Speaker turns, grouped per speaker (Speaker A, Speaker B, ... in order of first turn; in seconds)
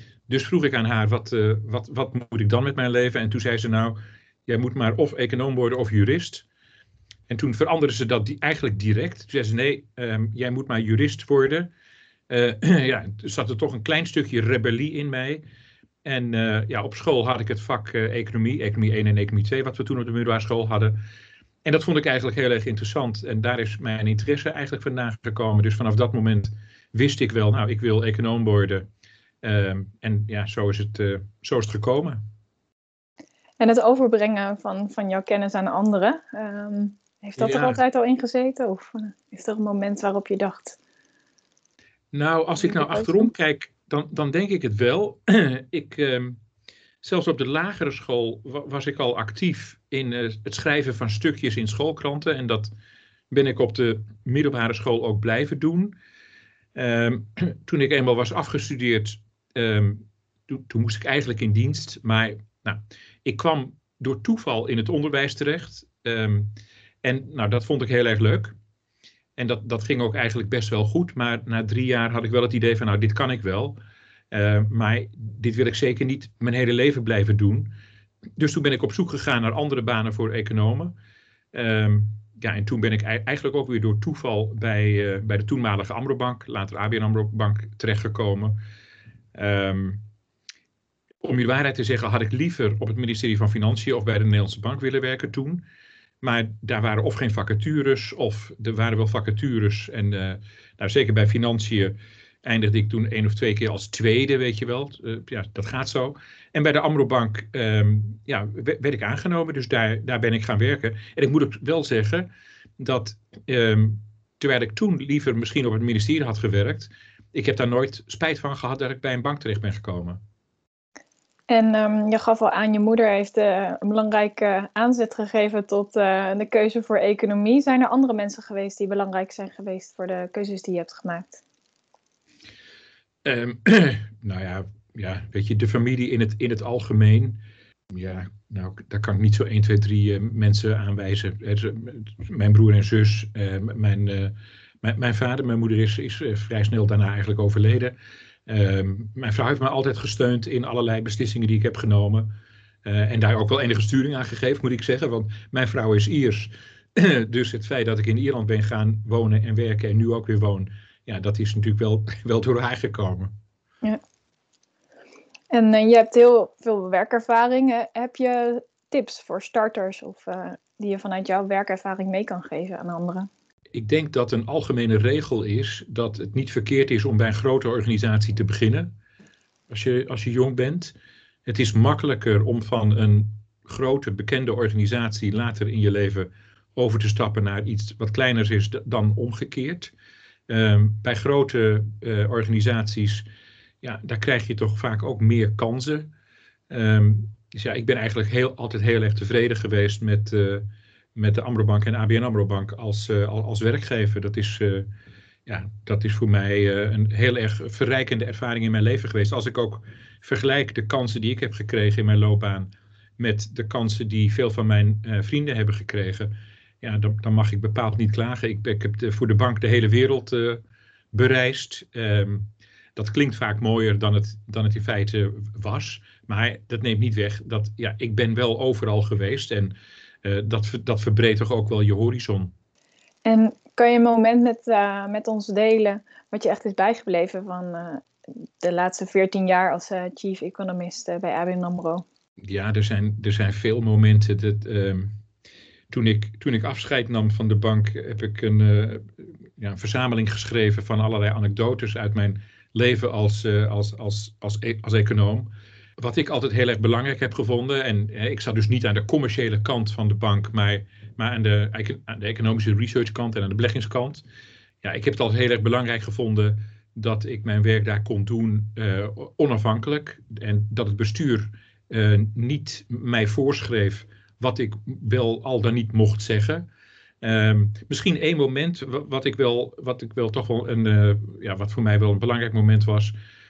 Speaker A: 0.3-6.4, 7.3-11.7, 12.3-15.4, 16.0-21.0, 21.6-28.9, 29.4-32.2, 37.4-37.8, 42.1-46.4, 47.0-52.7, 53.3-56.0, 56.7-68.5, 69.4-73.8, 74.3-77.7, 78.4-80.9, 81.5-88.6, 89.3-90.0, 91.2-95.6, 96.2-112.3, 112.8-120.2, 133.2-137.4, 137.9-147.9, 148.5-152.3, 152.8-163.3, 173.7-178.9, 179.7-180.9, 181.4-189.9, 190.5-193.2, 193.8-196.1, 196.7-204.9, 205.4-232.5, 242.4-245.1, 245.9-264.2, 264.8-276.7, 277.2-283.1
Speaker B: 33.6-40.8, 42.6-43.3, 121.5-131.4, 165.5-173.3, 233.2-238.1, 238.6-242.0